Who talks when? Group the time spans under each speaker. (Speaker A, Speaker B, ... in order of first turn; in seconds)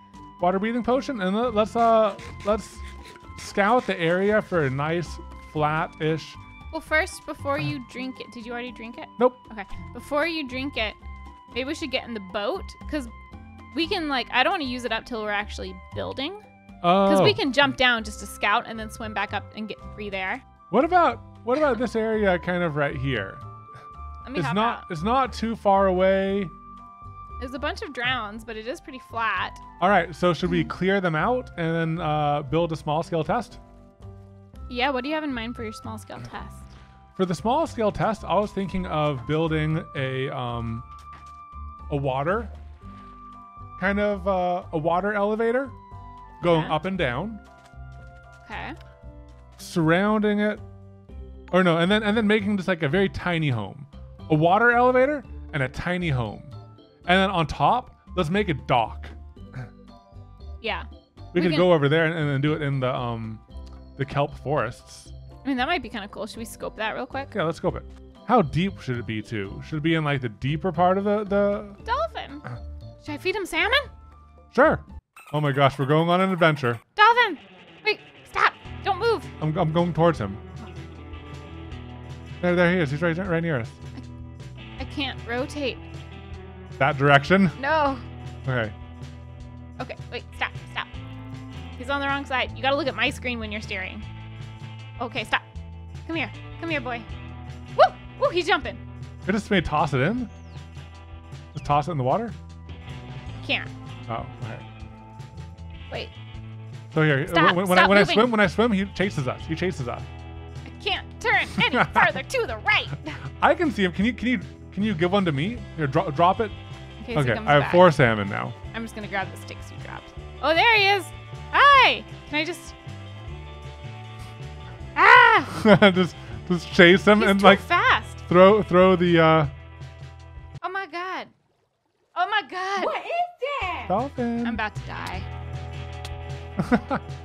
Speaker A: 0.4-2.8, 3.4-6.4, 16.8-17.4, 20.7-23.4, 24.4-26.5, 29.8-33.6, 37.2-40.9, 41.9-42.5, 43.8-45.8, 46.4-47.4, 49.6-50.6, 51.5-56.5, 57.1-59.1, 61.3-63.4, 64.0-65.1, 67.3-71.8, 74.5-76.8, 79.4-80.4, 82.4-83.8, 86.8-87.6, 88.5-88.7, 99.3-100.3, 101.5-102.3, 104.1-104.7, 106.9-110.1, 111.6-112.2, 113.4-116.6, 117.1-118.6, 125.5-127.7, 128.2-129.5, 133.9-134.6, 136.6-137.0
Speaker B: 6.7-11.0, 11.5-13.1, 13.7-16.4, 17.1-20.4, 24.2-24.9, 27.4-29.6, 34.7-36.7, 46.4-46.8, 48.4-48.8, 60.6-61.7, 65.4-67.3, 71.8-72.5, 73.0-73.9, 77.0-79.3, 84.8-85.8, 87.6-88.0, 89.8-90.9, 91.8-94.1, 95.0-95.4, 96.1-97.1, 97.8-98.8, 103.4-103.7, 107.3-108.3, 110.7-113.2, 117.0-117.9, 118.7-122.8, 125.0-125.6, 127.2-128.2, 130.6-131.3, 132.1-133.2, 134.4-135.3